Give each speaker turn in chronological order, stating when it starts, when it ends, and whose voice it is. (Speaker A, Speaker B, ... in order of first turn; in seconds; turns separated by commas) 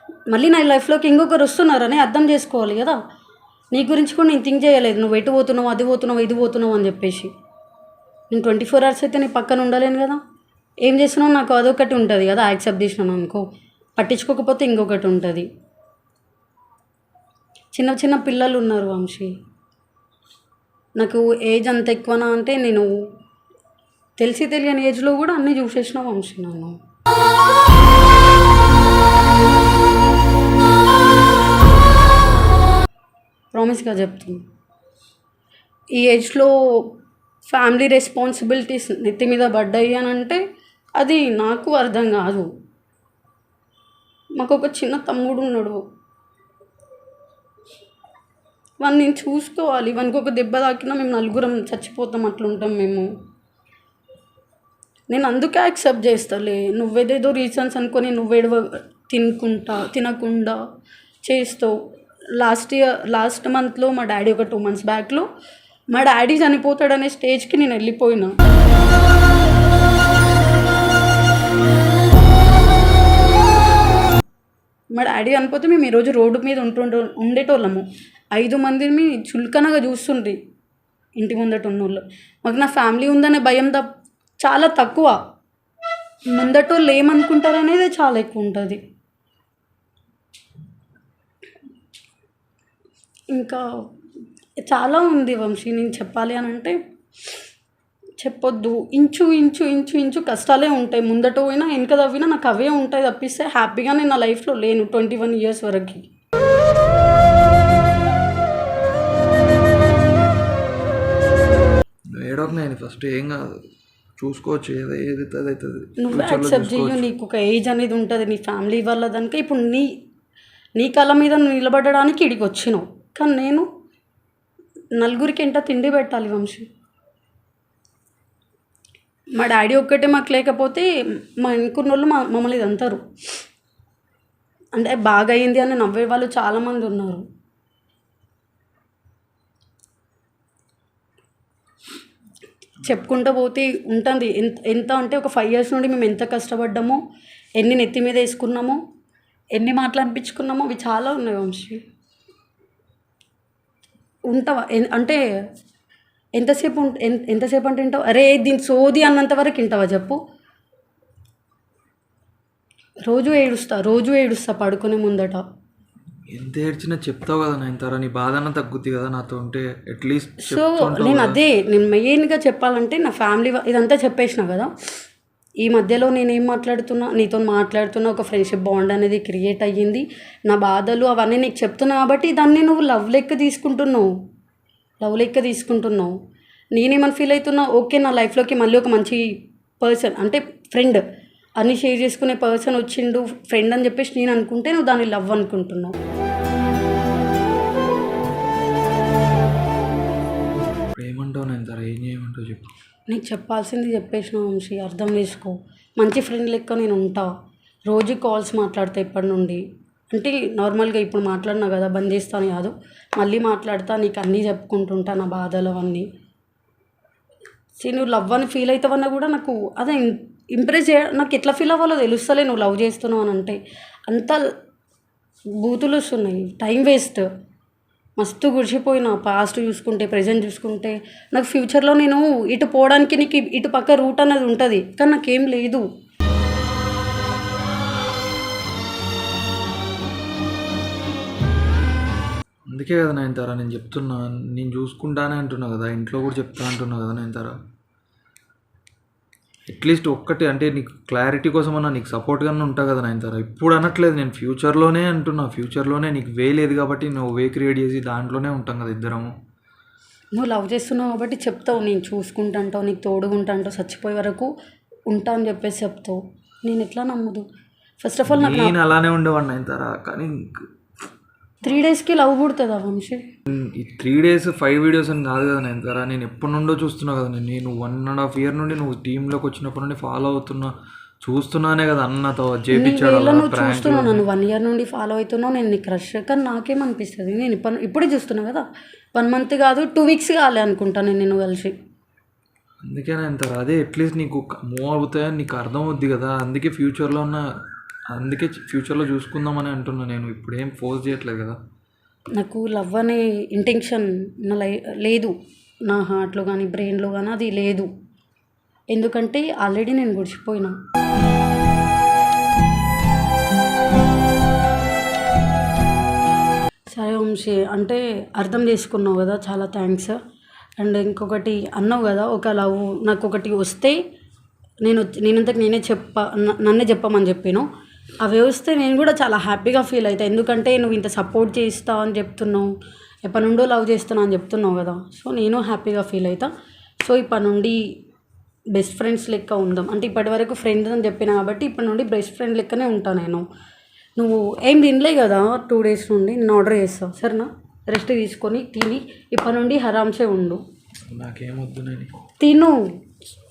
Speaker A: 0.3-3.0, Speaker A: 3.7-7.3, Speaker A: 8.3-10.2, Speaker A: 10.8-13.4, Speaker A: 14.0-15.5, Speaker A: 17.7-19.3, Speaker A: 21.0-22.9, Speaker A: 24.2-26.8, Speaker A: 33.5-34.4, Speaker A: 36.0-36.9, Speaker A: 37.5-40.4, Speaker A: 41.0-42.5, Speaker A: 44.4-45.8, Speaker A: 48.8-53.1, Speaker A: 55.1-60.6, Speaker A: 61.2-61.8, Speaker A: 62.4-65.3, Speaker A: 65.9-68.3, Speaker A: 75.0-80.4, Speaker A: 81.2-83.9, Speaker A: 84.4-85.2, Speaker A: 86.3-88.8, Speaker A: 93.3-93.6, Speaker A: 94.7-96.8, Speaker A: 98.2-106.0, Speaker B: 112.2-113.6, Speaker B: 114.2-117.1, Speaker A: 116.0-119.9, Speaker A: 120.8-123.7, Speaker A: 125.0-126.7, Speaker A: 129.4-133.0, Speaker A: 134.8-137.2, Speaker A: 142.8-147.0, Speaker A: 147.6-148.8, Speaker A: 149.6-151.8, Speaker A: 154.3-155.2, Speaker A: 156.4-160.2, Speaker A: 163.1-165.4, Speaker B: 166.3-171.4, Speaker A: 170.4-174.7, Speaker A: 175.6-184.1, Speaker A: 185.0-186.2, Speaker A: 186.7-189.2, Speaker A: 189.8-191.0, Speaker A: 191.6-195.9, Speaker B: 200.9-202.7, Speaker A: 203.1-207.3, Speaker A: 207.9-216.1, Speaker A: 217.8-224.4, Speaker A: 225.6-227.2, Speaker A: 228.2-235.8, Speaker B: 242.7-247.6, Speaker B: 249.7-259.3, Speaker A: 260.4-264.5, Speaker A: 265.1-267.4, Speaker A: 268.0-268.8, Speaker B: 268.3-270.6, Speaker A: 271.6-273.2, Speaker B: 273.5-284.3, Speaker A: 282.7-288.6, Speaker A: 289.1-291.7, Speaker B: 292.9-297.4, Speaker B: 298.1-301.6, Speaker A: 302.4-305.3, Speaker A: 305.9-307.9, Speaker A: 308.9-310.8, Speaker A: 316.9-320.2, Speaker A: 320.8-324.0, Speaker A: 324.8-327.7, Speaker A: 328.2-332.7, Speaker A: 333.2-336.5, Speaker A: 337.0-337.8, Speaker A: 338.7-343.4, Speaker A: 344.2-350.6, Speaker B: 351.1-352.1, Speaker A: 352.4-352.8